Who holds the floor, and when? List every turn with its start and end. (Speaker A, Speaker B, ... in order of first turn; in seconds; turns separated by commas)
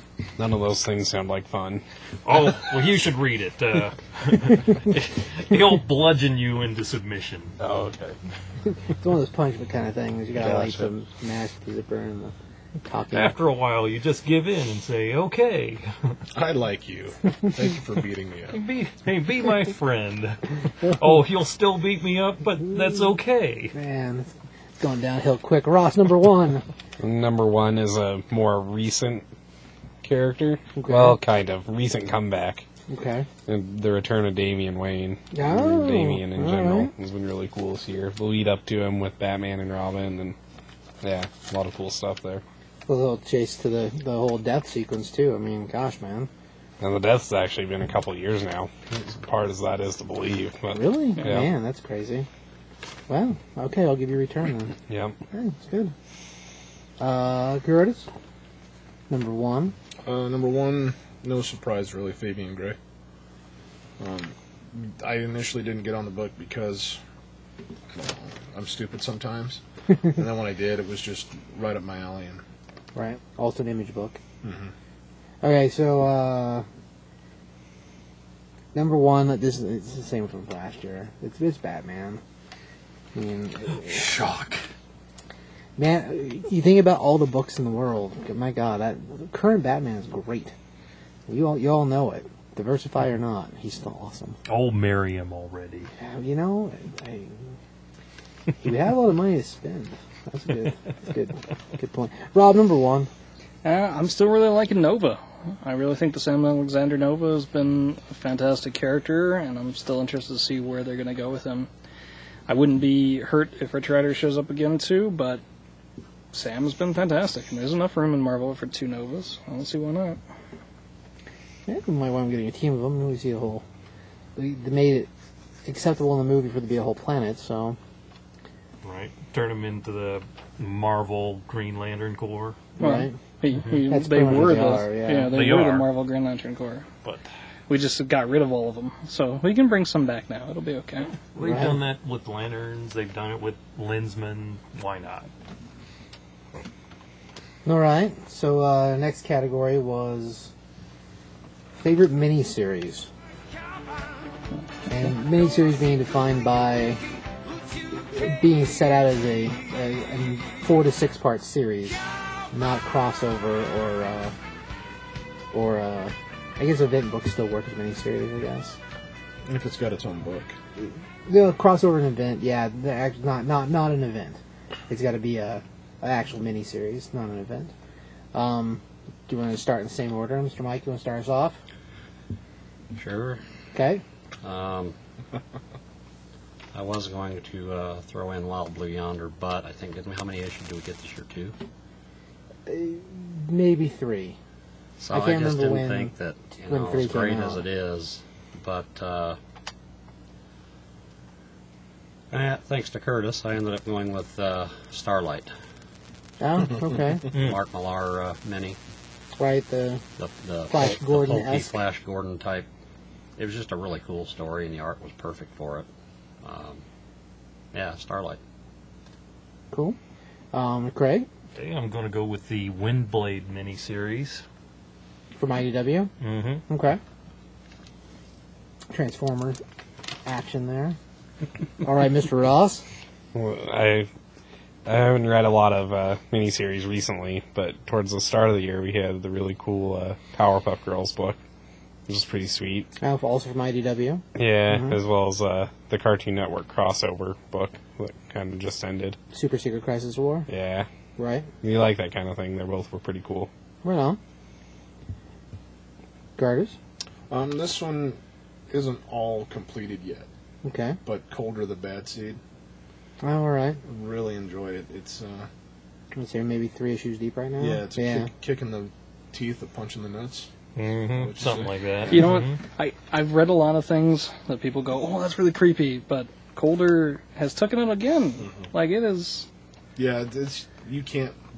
Speaker A: 0.4-1.8, Speaker B: 2.2-7.5, Speaker A: 7.6-8.2, Speaker C: 8.9-12.3, Speaker A: 10.3-10.9, Speaker C: 12.9-13.4, Speaker B: 13.1-16.2, Speaker D: 16.3-18.6, Speaker B: 18.5-23.8, Speaker C: 23.7-24.3, Speaker C: 24.8-26.6, Speaker A: 27.0-29.2, Speaker A: 30.0-32.7, Speaker C: 30.8-31.2, Speaker C: 32.9-33.3, Speaker A: 33.5-40.4, Speaker C: 35.3-36.9, Speaker A: 41.0-42.4, Speaker C: 42.9-46.3, Speaker A: 46.8-51.5, Speaker C: 50.7-52.3, Speaker C: 53.1-54.8, Speaker A: 54.9-55.2, Speaker C: 55.3-55.9, Speaker C: 57.0-58.1, Speaker C: 59.1-59.8, Speaker D: 60.0-62.8, Speaker D: 64.0-67.0, Speaker D: 67.9-72.4, Speaker C: 73.0-74.2, Speaker D: 74.4-74.7, Speaker C: 75.4-76.7, Speaker C: 78.7-82.2, Speaker C: 83.2-84.1, Speaker B: 83.8-84.7, Speaker C: 85.8-90.5, Speaker C: 91.3-94.4, Speaker B: 94.5-95.9, Speaker C: 96.0-97.5, Speaker C: 98.6-103.1, Speaker E: 103.6-111.7, Speaker E: 112.5-115.4, Speaker E: 116.3-120.2, Speaker C: 121.7-123.6, Speaker C: 124.4-125.1, Speaker C: 125.7-127.8, Speaker B: 128.8-132.6, Speaker C: 132.8-133.2, Speaker E: 132.8-136.9, Speaker B: 133.6-133.8, Speaker C: 133.9-135.3, Speaker B: 135.3-135.9, Speaker E: 137.7-141.1, Speaker B: 141.3-145.3, Speaker C: 141.4-141.8, Speaker C: 147.7-150.5, Speaker C: 151.8-153.1, Speaker C: 154.9-157.0, Speaker C: 158.1-164.3, Speaker C: 165.5-168.8, Speaker D: 169.4-170.6, Speaker C: 170.8-177.7, Speaker C: 178.3-181.6, Speaker F: 182.9-183.4, Speaker C: 183.7-184.0, Speaker F: 184.4-185.0, Speaker F: 186.7-191.6, Speaker C: 192.7-194.4, Speaker F: 195.0-199.4, Speaker C: 195.1-196.1, Speaker C: 196.7-197.7, Speaker F: 202.3-205.5, Speaker C: 206.4-207.3, Speaker F: 207.3-208.8, Speaker B: 207.3-207.6, Speaker C: 209.4-210.0, Speaker F: 210.2-212.7, Speaker C: 210.7-211.8, Speaker F: 213.4-215.9, Speaker F: 216.4-216.8, Speaker F: 217.7-218.4, Speaker C: 219.7-220.0, Speaker C: 220.5-221.3, Speaker B: 221.6-224.4, Speaker C: 225.4-226.1, Speaker B: 226.2-226.6, Speaker C: 226.7-227.0, Speaker C: 228.9-229.6, Speaker C: 230.2-231.0, Speaker C: 231.8-232.8, Speaker A: 233.3-234.1, Speaker A: 234.8-241.4, Speaker A: 242.1-242.9, Speaker C: 243.0-245.0, Speaker A: 244.4-249.2, Speaker C: 249.3-250.5, Speaker A: 250.5-250.9, Speaker C: 251.2-251.5, Speaker A: 251.6-253.5, Speaker C: 253.8-254.2, Speaker C: 256.4-256.8, Speaker D: 257.3-258.2, Speaker D: 258.7-260.3, Speaker C: 260.6-261.0, Speaker D: 261.1-262.4, Speaker C: 263.2-263.8, Speaker D: 263.9-265.5, Speaker C: 266.1-268.3, Speaker D: 267.6-270.5, Speaker B: 270.8-272.6, Speaker D: 271.1-271.8, Speaker E: 272.1-279.5, Speaker D: 278.4-278.7, Speaker D: 280.0-281.4